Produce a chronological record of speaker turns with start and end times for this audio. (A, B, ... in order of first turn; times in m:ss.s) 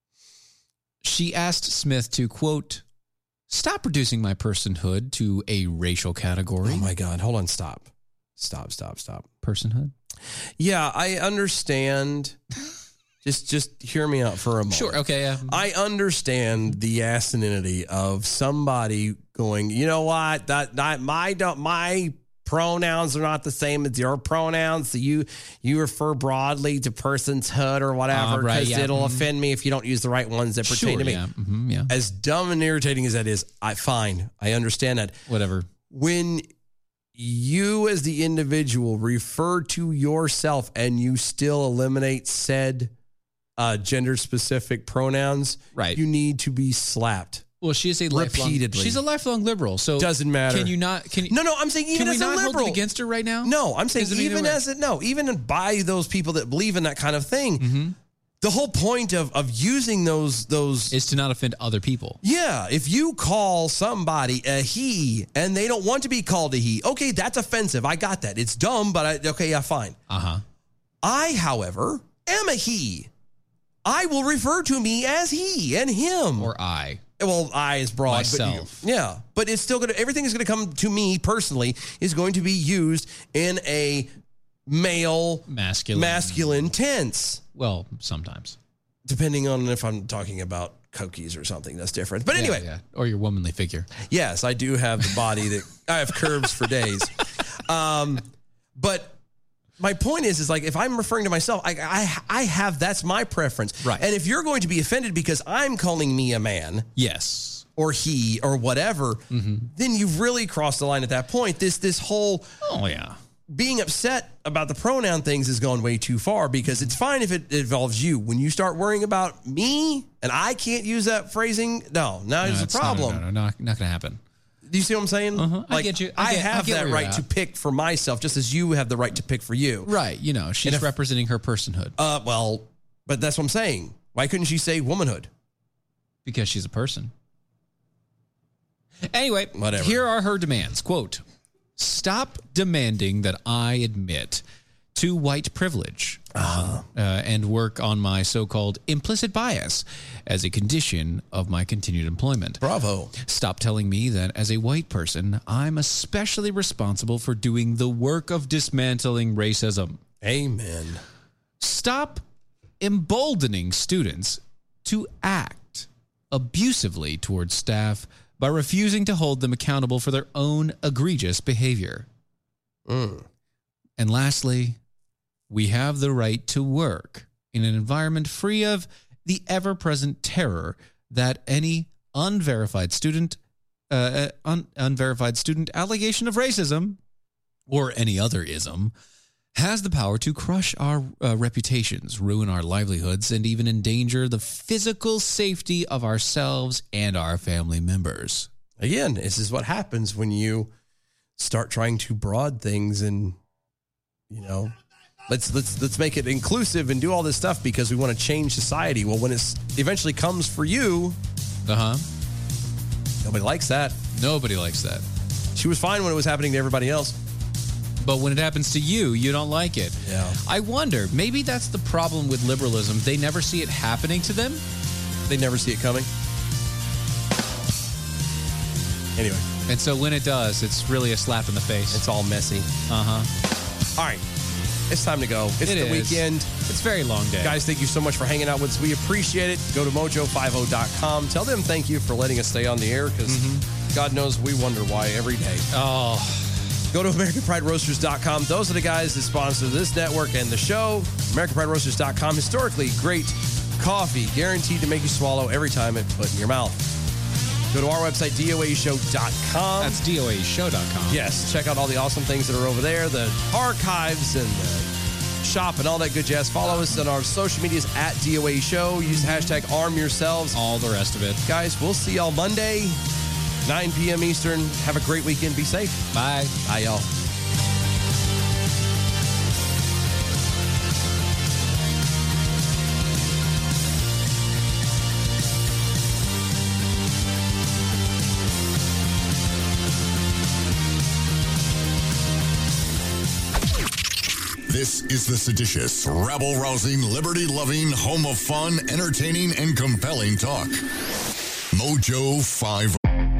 0:01.0-0:02.8 A
0:03.5-0:06.9 A
0:06.6-0:09.2 B
0:09.4-0:09.9 A
0:10.6-0:12.4 B
0:13.2-0:31.2 B
0:14.7-0:15.6 A
0:28.1-0:29.3 A
0:30.6-0:31.9 A
0:31.9-0:35.2 B
0:35.3-0:35.7 A
0:35.9-0:36.5 B
0:37.1-0:42.9 B
0:43.6-0:47.4 B
0:45.7-0:46.0 A
0:47.6-0:51.4 A
0:48.1-0:49.0 B
0:50.0-0:50.7 B
0:51.3-0:52.8 B
0:51.9-0:54.6 A
0:53.4-0:57.6 B
0:57.6-0:57.9 A
0:58.4-1:00.9 B
1:00.9-1:02.2 A
1:02.2-1:10.0 B
1:10.1-1:10.4 A
1:11.0-1:13.1 B
1:13.8-1:16.5 B
1:16.4-1:17.0 A
1:17.2-1:24.1 B
1:18.1-1:18.8 A
1:24.7-1:27.4 B
1:25.5-1:26.7 A
1:27.5-1:28.6 A
1:29.0-1:32.6 B
1:32.3-1:33.9 A
1:34.0-1:37.1 B
1:37.6-1:38.2 B
1:38.7-1:39.2 B
1:39.8-1:46.9 B
1:47.0-1:47.6 A
1:47.8-1:49.2 B
1:49.3-1:49.7 A
1:49.7-1:52.5 B
1:52.6-1:53.2 A
1:53.5-2:03.2 B
2:02.4-2:04.2 A
2:04.6-2:09.9 B
2:05.4-2:07.2 A
2:09.8-2:12.0 A
2:10.6-2:10.9 B
2:12.0-2:15.3 B
2:16.2-2:17.1 A
2:19.1-2:21.2 A
2:19.5-2:20.0 B
2:21.8-2:24.4 A
2:24.9-2:32.6 A
2:26.3-2:26.8 B
2:32.6-2:33.1 B
2:33.2-2:40.0 A
2:40.2-2:41.0 B
2:41.6-2:42.2 A
2:42.8-2:52.0 A
2:52.9-2:53.2 B
2:54.0-2:54.8 A
2:55.5-3:03.4 A
3:03.9-3:07.0 A
3:07.7-3:08.9 A
3:09.5-3:18.5 A
3:18.8-3:20.7 B
3:21.4-3:23.4 B
3:24.3-3:24.7 B
3:25.3-3:31.2 B
3:31.6-3:32.0 A
3:33.2-3:34.0 B
3:34.1-3:35.0 A
3:35.5-3:37.2 B
3:38.0-3:44.6 A
3:40.0-3:40.4 B
3:45.3-3:46.1 B
3:49.2-3:49.4 B
3:49.7-3:52.0 A
3:51.9-3:52.7 B
3:52.9-3:53.3 A
3:54.0-3:54.2 B
3:54.9-3:56.5 B
3:55.6-3:57.6 A
3:57.4-4:05.7 B
4:03.2-4:03.6 A
4:05.7-4:06.6 A
4:06.9-4:16.8 B
4:17.7-4:20.0 B
4:19.8-4:21.4 A
4:21.1-4:24.9 B
4:25.4-4:30.6 B
4:29.0-4:29.6 A
4:30.5-4:31.4 A
4:31.4-4:33.0 B
4:33.6-4:36.1 B
4:36.1-4:36.6 A
4:36.6-4:37.1 B
4:54.7-5:00.8 C
5:01.7-5:03.0 C